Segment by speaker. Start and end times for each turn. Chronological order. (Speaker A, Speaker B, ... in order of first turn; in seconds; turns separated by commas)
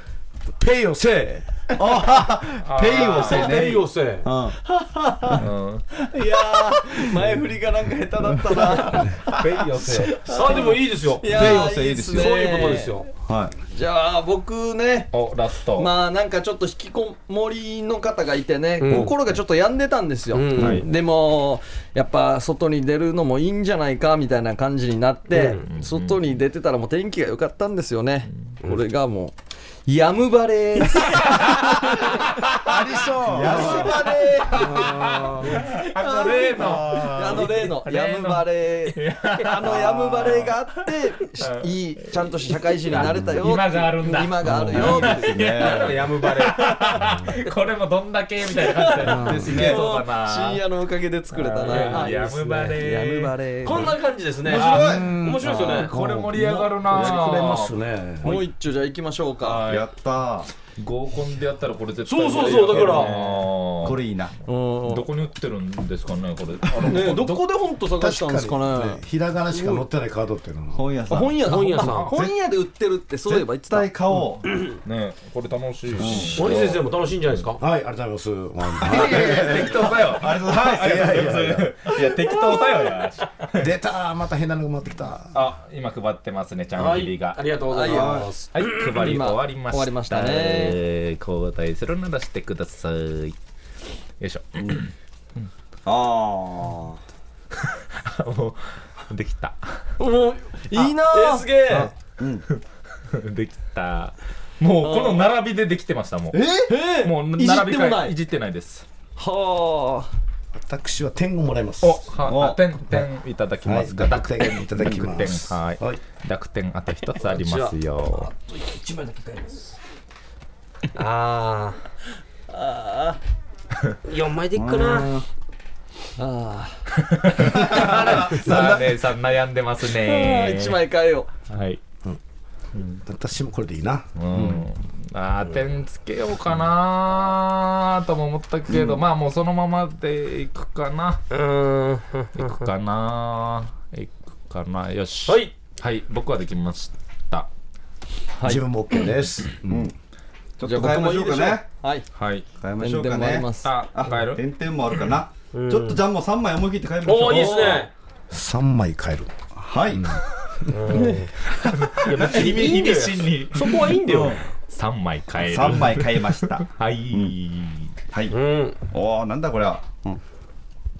Speaker A: 0.6-1.7, Speaker B: 1.8-4.5, Speaker C: 2.6-3.6, Speaker D: 2.9-4.3, Speaker E: 4.6-5.4, Speaker C: 5.4-5.8, Speaker E: 6.0-9.3, Speaker B: 8.5-8.8, Speaker D: 9.3-13.1, Speaker E: 9.9-13.1, Speaker B: 11.2-12.5, Speaker B: 13.2-13.5, Speaker E: 13.7-15.1, Speaker C: 15.1-15.9, Speaker E: 15.8-29.3, Speaker D: 18.8-19.1, Speaker D: 20.3-20.8, Speaker B: 20.6-20.8, Speaker D: 25.3-25.6, Speaker C: 25.7-26.2, Speaker E: 29.9-32.3, Speaker A: 32.6-35.6, Speaker B: 33.2-34.6, Speaker E: 33.2-35.0, Speaker C: 33.5-40.5, Speaker E: 36.0-45.6, Speaker A: 36.6-37.0, Speaker C: 41.4-41.6, Speaker C: 42.8-50.6, Speaker B: 43.0-43.4, Speaker B: 44.4-46.1, Speaker D: 45.4-47.0, Speaker E: 48.6-54.0, Speaker A: 49.0-49.6, Speaker B: 49.2-49.8, Speaker C: 51.3-53.3, Speaker D: 51.6-52.5, Speaker D: 53.6-55.9, Speaker B: 54.4-55.1, Speaker C: 54.5-57.7, Speaker A: 54.6-58.4, Speaker E: 58.2-59.6, Speaker C: 59.4-59.9, Speaker B: 59.7-60.5, Speaker C: 60.8-64.0, Speaker D: 62.1-63.3, Speaker E: 62.2-63.2, Speaker B: 63.8-64.3, Speaker E: 64.5-65.1, Speaker C: 64.8-67.4, Speaker E: 66.9-69.8, Speaker A: 67.9-70.8, Speaker B: 70.7-71.4, Speaker E: 71.1-73.9, Speaker D: 71.4-72.1, Speaker C: 71.5-72.1, Speaker B: 73.2-74.5, Speaker C: 74.8-76.8, Speaker B: 75.9-76.4, Speaker D: 76.3-77.6, Speaker A: 77.6-81.9, Speaker C: 78.8-83.7, Speaker B: 78.8-81.3, Speaker A: 83.5-85.3, Speaker C: 85.3-87.4, Speaker D: 86.8-89.0, Speaker E: 87.7-90.8, Speaker B: 87.8-88.3, Speaker C: 88.5-93.3, Speaker C: 94.2-95.5, Speaker B: 95.8-97.0, Speaker C: 97.6-99.8, Speaker E: 100.0-101.9, Speaker D: 100.8-101.9, Speaker B: 102.2-102.4, Speaker C: 102.5-106.4, Speaker E: 104.8-105.3, Speaker B: 106.3-106.7, Speaker E: 106.7-108.1, Speaker C: 107.0-108.8, Speaker E: 109.2-110.1, Speaker A: 110.5-112.1, Speaker C: 111.8-118.3, Speaker B: 112.2-112.6, Speaker A: 113.6-116.0, Speaker E: 117.5-119.7, Speaker D: 120.9-121.8, Speaker E: 122.5-123.2, Speaker D: 124.0-125.1, Speaker B: 124.5-125.2, Speaker E: 126.2-126.8, Speaker C: 127.0-130.8, Speaker E: 127.6-128.8, Speaker D: 128.0-128.6, Speaker E: 129.9-131.3, Speaker C: 131.5-131.8, Speaker C: 132.7-133.0, Speaker A: 133.0-134.7, Speaker C: 134.2-141.2, Speaker B: 138.7-139.0, Speaker D: 141.3-142.5, Speaker C: 142.3-147.5, Speaker D: 145.3-145.5, Speaker E: 148.3-148.6, Speaker A: 148.4-149.9, Speaker B: 149.6-149.9, Speaker B: 150.6-151.7, Speaker E: 150.6-152.1, Speaker C: 152.1-152.5, Speaker B: 152.6-157.9, Speaker E: 152.8-153.7, Speaker C: 153.6-154.4, Speaker D: 155.5-156.0, Speaker D: 157.0-157.9, Speaker A: 158.3-159.3, Speaker B: 159.5-160.2, Speaker A: 159.9-161.2, Speaker D: 160.7-161.3, Speaker C: 161.7-167.9, Speaker D: 162.0-164.4, Speaker B: 164.1-164.4, Speaker B: 165.4-167.3, Speaker B: 168.1-170.2, Speaker D: 168.3-168.8